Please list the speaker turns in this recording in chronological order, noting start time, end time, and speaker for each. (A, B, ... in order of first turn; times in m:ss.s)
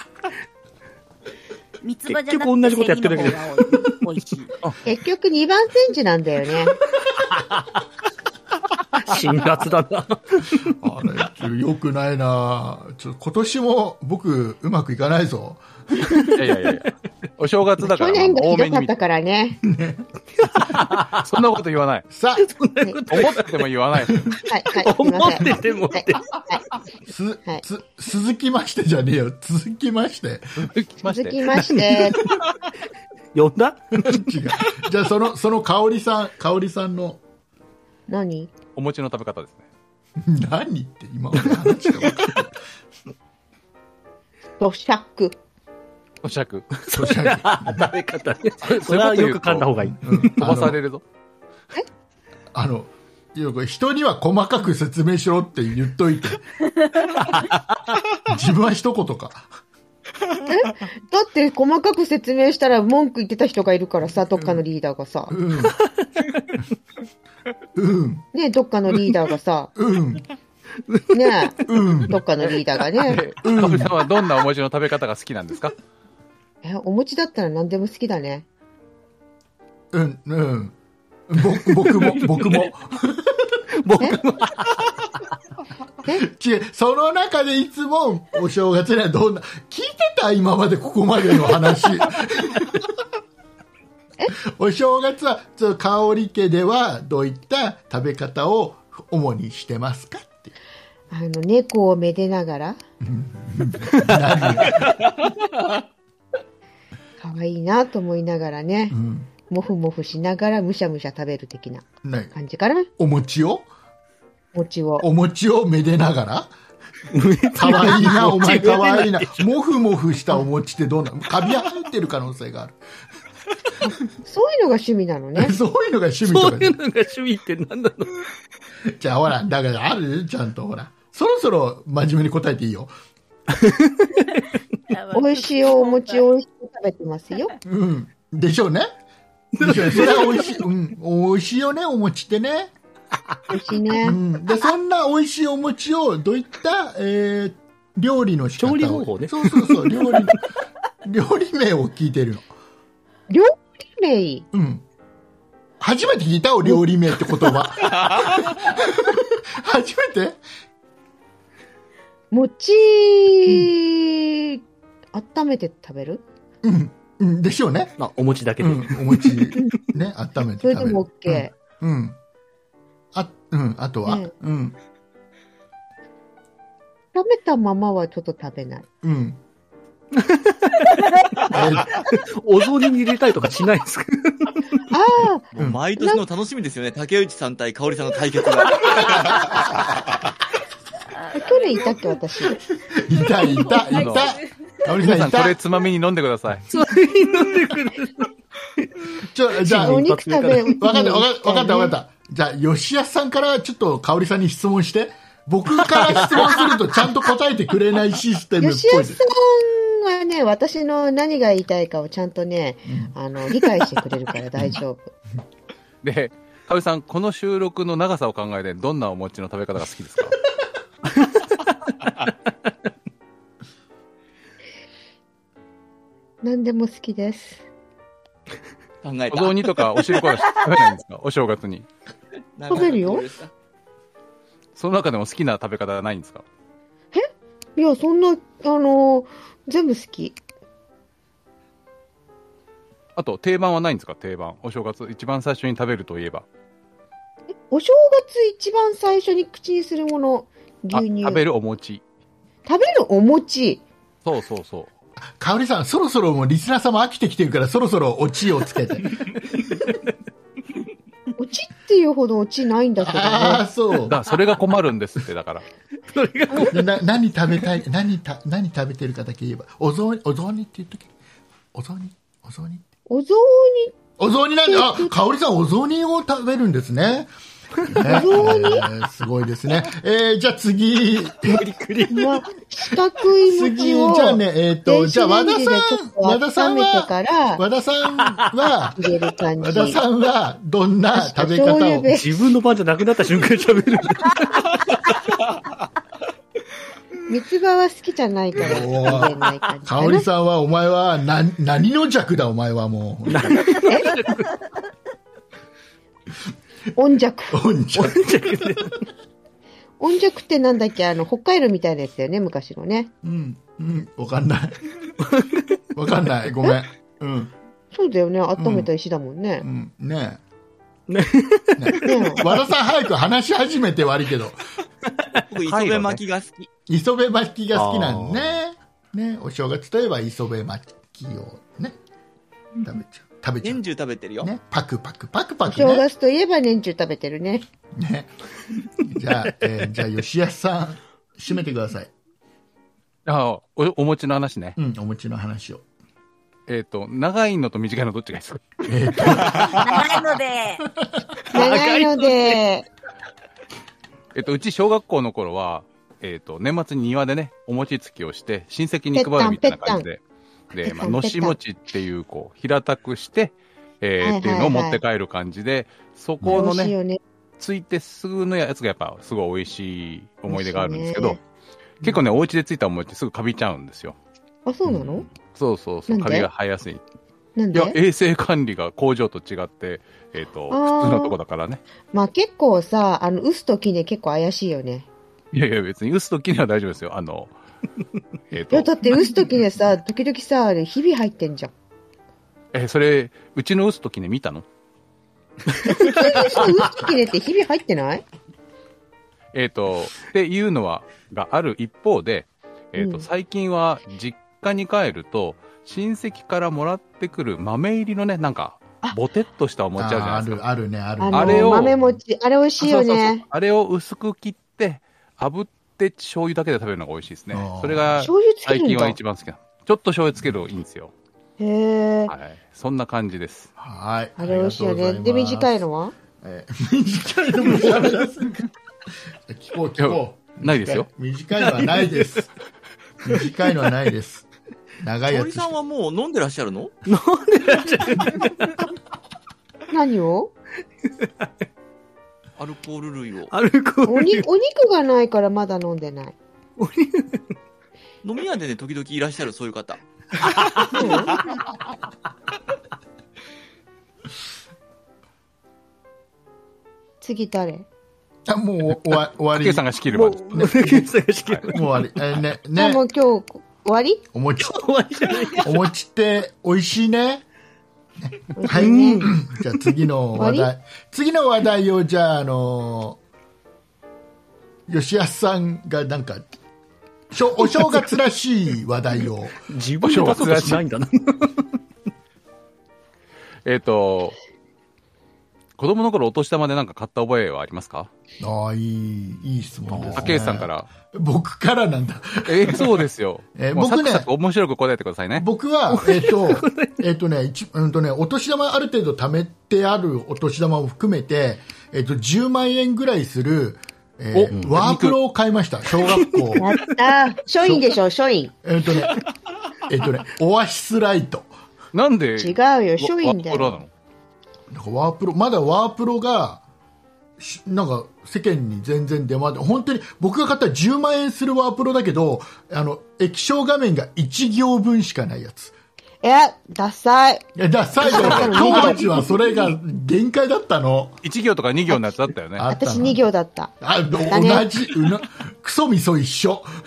0:01.8-0:04.5 A
0:02.0-0:03.9 B
0:04.8-0:06.8 C
0:07.0-0:07.6 B
0:09.0-0:10.7 B
0:10.6-0:15.6 D
0:16.0-0:16.8 B
0:16.3-0:18.9 E
0:17.8-0:19.6 C
0:19.6-0:20.1 D
0:20.5-0:21.2 B
0:20.7-0:22.1 E
0:22.1-0:22.5 D
0:22.4-0:23.7 B
0:23.1-0:24.3 E
0:24.5-0:26.6 C
0:24.8-0:26.4 B
0:27.1-0:30.7 D
0:30.6-0:31.3 E
0:31.0-0:32.2 C
0:31.5-0:32.4 B
0:33.3-0:34.3 B
0:34.0-0:37.2 D
0:38.1-0:38.5 C
0:38.8-0:39.6 E
0:40.2-0:42.5 D
0:41.4-0:42.2 B
0:44.6-0:45.4 C
0:46.2-0:46.7 E
0:46.8-0:50.6 B
0:46.9-0:47.9 D
0:48.6-0:51.0 E
0:50.0-0:50.8 D
0:52.5-0:56.5 D
0:58.2-0:59.5 D
1:00.4-1:05.4 C
1:05.3-1:05.8 D
1:05.6-1:06.6 B
1:07.8-1:08.2 D
1:08.3-1:09.7 C
1:09.8-1:10.2 D
1:10.8-1:11.7 B
1:11.1-1:13.2 C
1:11.6-1:12.2 D
1:13.0-1:15.7 E
1:13.4-1:14.0 D
1:16.6-1:18.4 C
1:19.9-1:20.7 D
1:21.3-1:23.6 D
1:21.7-1:22.7 B
1:23.8-1:24.9 B
1:26.1-1:32.9 D
1:34.5-1:40.5 D
1:41.1-1:42.8 C
1:43.0-1:44.9 D
1:44.0-1:44.9 B
1:47.2-1:49.0 C
1:48.9-1:49.3 D
1:49.5-1:52.9 C
1:52.0-1:52.3 D
1:53.0-1:53.7 D
1:54.5-1:55.0 C
1:55.0-1:56.5 D
1:57.1-1:59.4 B
1:57.5-2:02.8 D
2:03.8-2:05.5 C
2:05.3-2:06.8 D
2:06.2-2:08.2 B
2:08.8-2:12.9 D
2:13.5-2:14.4 B
2:14.9-2:16.2 A
2:15.1-2:17.5 C
2:17.6-2:18.9 D
2:19.5-2:20.6 B
2:19.6-2:22.7 D
2:23.5-2:24.2 C
2:24.0-2:30.4 D
2:28.6-2:30.4 B
2:31.0-2:32.5 D
2:33.3-2:34.4 C
2:34.5-2:34.8 D
2:35.8-2:40.4 D
2:42.3-2:44.6 C
2:45.1-2:46.2 C
2:46.6-2:48.0 D
2:48.0-2:49.5 B
2:48.6-2:52.2 D
2:50.6-2:51.5 C
2:53.1-2:54.8 D
2:54.0-2:54.3 C
2:57.1-2:58.8 C
2:59.0-2:59.4 D
3:00.1-3:04.8 B
3:01.5-3:02.0 D
3:04.9-3:06.2 C
3:05.5-3:09.8 F
3:11.2-3:12.0 A
3:11.4-3:12.6 C
3:12.9-3:15.6 D
3:13.4-3:14.6 A
3:13.9-3:14.4 E
3:14.9-3:16.6 E
3:16.7-3:20.8 B
3:19.2-3:20.1 D
3:19.6-3:21.9 C
3:20.7-3:29.2 D
3:25.8-3:26.8 B
3:28.6-3:35.1 C
3:32.8-3:33.1 D
3:36.0-3:40.4 E
3:41.2-3:41.4 B
3:46.4-3:47.6 C
3:49.0-3:50.2 F
3:49.3-3:51.9 E
3:52.6-3:53.5 F
3:52.7-3:53.2 C
3:54.8-3:56.4 E
3:57.1-4:00.4 C
4:03.2-4:06.4 E
4:07.7-4:11.4 C
4:10.9-4:12.0 E
4:12.6-4:13.8 C
4:14.2-4:14.9 E
4:15.4-4:19.3 D
4:21.4-4:23.6 C
4:23.0-4:24.2 D
4:24.1-4:25.6 E
4:26.1-4:26.9 B
4:26.6-4:31.1 D
4:31.7-4:32.8 D
4:33.1-4:33.9 C
4:34.2-4:37.3 D
4:34.6-4:35.1 C
4:37.8-4:41.6 D
4:38.0-4:38.9 C
4:41.4-4:42.4 B
4:42.1-4:47.6 C
4:43.4-4:49.0 D
4:49.0-4:50.0 C
4:49.6-4:52.1 D
4:51.1-4:52.4 C
4:52.1-4:55.1 B
4:57.3-5:00.3 C
4:58.6-4:59.3 D
4:59.8-5:03.7 D
5:03.3-5:04.5 B
5:03.8-5:04.1 C
5:07.0-5:07.6 C
5:07.5-5:08.6 D
5:07.9-5:09.0 B
5:10.0-5:13.1 C
5:13.2-5:14.9 D
5:15.2-5:15.6 B
5:15.9-5:17.5 D
5:17.9-5:19.6 C
5:18.6-5:18.9 D
5:19.6-5:20.4 D
5:21.1-5:22.5 B
5:21.8-5:24.6 D
5:22.0-5:22.5 C
5:25.4-5:26.7 F
5:25.6-5:26.2 E
5:26.9-5:32.0 D
5:27.7-5:28.6 B
5:32.8-5:33.8 D
5:33.6-5:34.5 F
5:34.4-5:36.0 D
5:35.6-5:37.6 C
5:37.9-5:38.3 D
5:39.0-5:42.1 D
5:43.2-5:44.8 E
5:44.8-5:45.8 D
5:46.7-5:49.4 E
5:48.9-5:50.1 D
5:49.8-5:50.8 A
5:51.5-5:52.6 B
5:51.5-5:52.8 C
5:54.3-6:00.2 E
5:59.1-6:00.0 C
6:00.7-6:06.9 E
6:00.8-6:01.6 C
6:04.2-6:05.0 C
6:06.4-6:07.2 C
6:07.6-6:11.4 E
6:10.5-6:11.4 C
6:12.0-6:14.2 E
6:14.6-6:15.3 C
6:14.9-6:15.2 B
6:15.5-6:17.0 E
6:16.1-6:16.5 C
6:17.6-6:18.0 C
6:17.7-6:21.8 E
6:20.7-6:21.4 C
6:22.1-6:25.1 C
6:25.5-6:27.5 E
6:28.5-6:28.9 E
6:28.7-6:31.7 C
6:32.7-6:34.6 E
6:35.7-6:36.7 B
6:35.8-6:38.2 C
6:39.5-6:50.6 E
6:43.0-6:43.2 C
6:50.0-6:52.1 D
6:51.2-6:53.4 C
6:51.3-6:51.9 E
6:52.8-7:01.1 E
6:57.5-6:58.2 D
6:58.2-6:59.2 C
7:01.6-7:02.3 C
7:02.3-7:03.7 E
7:03.8-7:05.8 D
7:04.4-7:06.1 C
7:06.4-7:08.6 D
7:07.8-7:08.0 B
7:09.5-7:12.5 D
7:10.0-7:11.1 E
7:11.6-7:12.4 B
7:13.2-7:14.5 D
7:15.0-7:15.7 D
7:15.2-7:16.9 F
7:17.1-7:18.9 B
7:19.9-7:20.5 C
7:21.1-7:21.5 B
7:22.6-7:23.5 F
7:23.5-7:24.5 B
7:24.0-7:26.4 C
7:26.8-7:27.5 B
7:28.2-7:30.0 F
7:30.6-7:31.2 B
7:30.9-7:31.3 C
7:37.2-7:37.8 C
7:38.5-7:39.8 D
7:39.5-7:40.8 E
7:40.1-7:42.1 B
7:40.5-7:41.1 D
7:41.7-7:43.0 D
7:42.8-7:44.2 C
7:44.3-7:44.8 D
7:44.6-7:45.8 B
7:45.6-7:47.4 D
7:48.2-7:53.2 D
7:48.6-7:49.3 C
7:48.7-7:50.0 B
7:50.3-7:50.7 C
7:54.9-7:56.5 D
7:57.3-7:59.6 D
7:59.6-8:01.8 B
8:00.0-8:00.8 E
8:03.6-8:04.4 E
8:05.8-8:08.1 E
8:08.4-8:13.0 D
8:09.9-8:10.3 B
8:10.1-8:10.9 E
8:12.4-8:15.4 E
8:13.6-8:14.3 D
8:15.4-8:26.6 D
8:15.9-8:17.0 B
8:24.3-8:25.2 E
8:24.5-8:24.8 B
8:26.0-8:26.6 B
8:26.6-8:28.5 C
8:28.6-8:29.2 D
8:29.8-8:31.5 D
8:31.9-8:33.9 E
8:32.4-8:33.8 C
8:34.7-8:36.6 D
8:37.4-8:45.7 D
8:46.2-8:47.5 C
8:47.6-8:51.2 D
8:48.0-8:49.2 C
8:51.2-8:52.7 E
8:52.6-8:53.2 D
8:52.7-8:53.7 C
8:53.8-8:56.7 D
8:54.3-8:54.7 C